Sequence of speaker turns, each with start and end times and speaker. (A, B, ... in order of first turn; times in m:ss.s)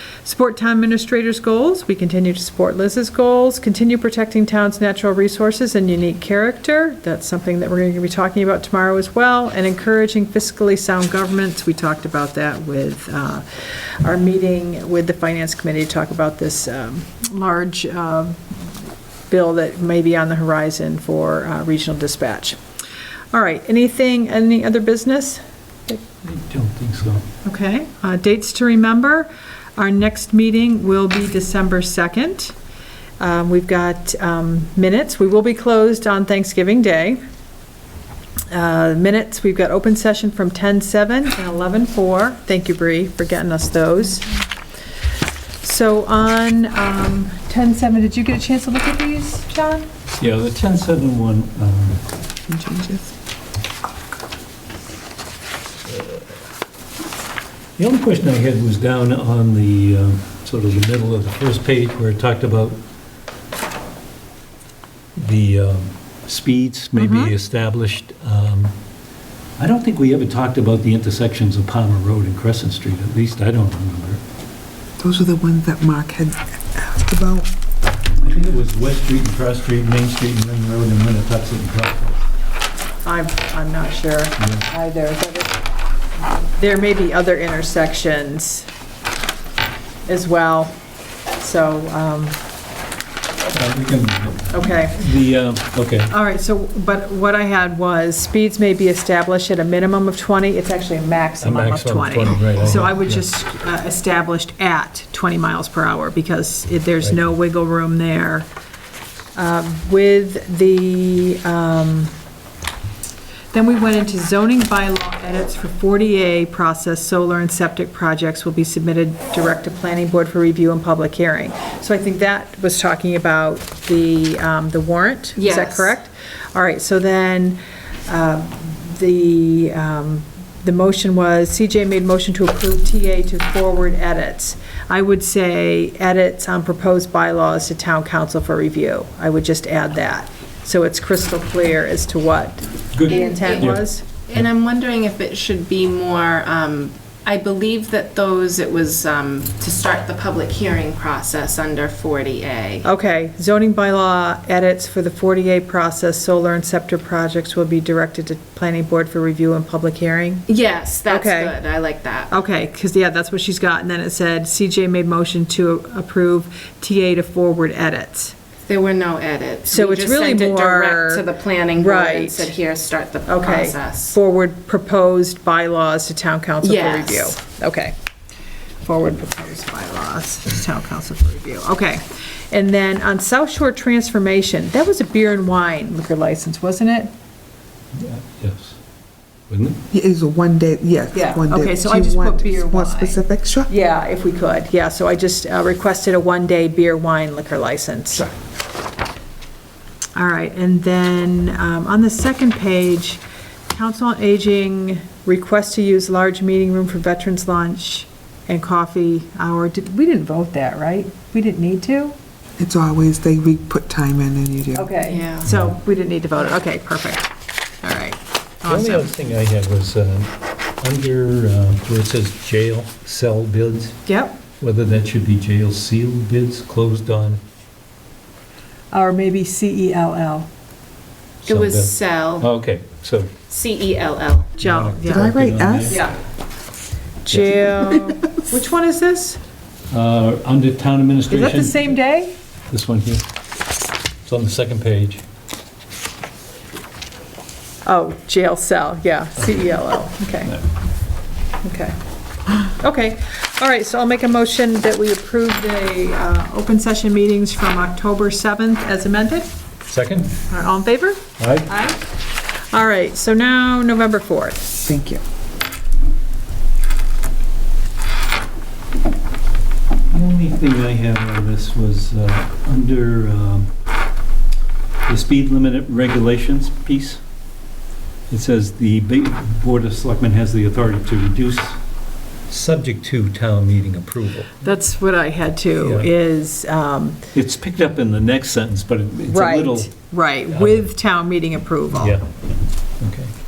0:00.2-0:18.6 A
0:19.3-0:22.6 A
0:23.3-0:26.0 A
0:26.2-0:27.3 B
0:27.4-0:32.5 A
0:33.2-0:37.2 A
0:38.5-0:44.3 A
0:45.6-0:49.8 A
0:50.2-0:52.0 B
0:52.5-0:53.1 C
0:55.9-0:56.3 B
0:57.8-1:02.8 B
1:05.2-1:08.7 B
1:07.0-1:07.3 A
1:09.6-1:14.2 B
1:15.0-1:17.5 C
1:18.2-1:22.2 B
1:23.0-1:25.6 A
1:24.4-1:24.6 B
1:26.5-1:28.7 A
1:30.1-1:30.8 A
1:31.4-1:32.4 A
1:33.5-1:36.1 B
1:34.5-1:35.1 A
1:36.1-1:48.5 A
1:41.4-1:43.2 B
1:47.0-1:47.3 B
1:49.3-1:52.1 A
1:53.5-2:24.0 A
2:05.4-2:05.9 D
2:22.9-2:23.8 B
2:23.1-2:32.8 D
2:32.8-2:40.5 A
2:40.5-2:42.3 D
2:41.1-2:41.6 A
2:42.3-2:48.3 A
2:48.7-2:54.1 D
2:49.7-2:52.5 A
2:53.2-2:57.9 A
2:56.6-2:57.4 D
2:58.8-3:07.1 A
3:07.9-3:08.8 B
3:09.5-3:09.8 B
3:09.9-3:13.7 C
3:11.1-3:18.3 A
3:20.1-3:32.2 A
3:32.6-3:34.9 C
3:34.7-3:37.3 A
3:35.0-3:35.5 D
3:35.4-3:35.7 B
3:37.8-3:39.1 A
3:38.6-3:44.0 B
3:44.0-3:44.4 A
3:44.6-3:47.4 B
3:48.9-3:50.5 A
3:51.4-3:53.3 B
3:51.4-3:52.5 D
3:53.5-3:54.5 D
3:54.6-3:56.1 B
3:54.6-3:55.4 A
3:55.0-3:56.0 C
3:55.9-3:56.2 A
3:57.2-3:59.4 A
3:57.3-3:58.4 C
3:59.9-4:01.9 B
4:01.3-4:02.3 A
4:02.7-4:03.2 B
4:04.2-4:05.2 B
4:07.8-4:10.6 A
4:11.6-4:12.0 A
4:12.6-4:19.5 A
4:19.9-4:20.4 B
4:20.5-4:24.7 A
4:21.4-4:21.7 B
4:24.8-4:25.2 C
4:30.1-4:33.7 B
4:35.0-4:37.2 B
4:38.3-4:41.8 B
4:42.5-4:44.6 B
4:44.6-4:47.2 A
4:45.8-4:46.1 B
4:47.3-4:49.9 B
4:49.3-4:52.2 A
4:50.5-4:50.9 B
4:52.0-4:52.2 B
4:53.0-4:53.3 B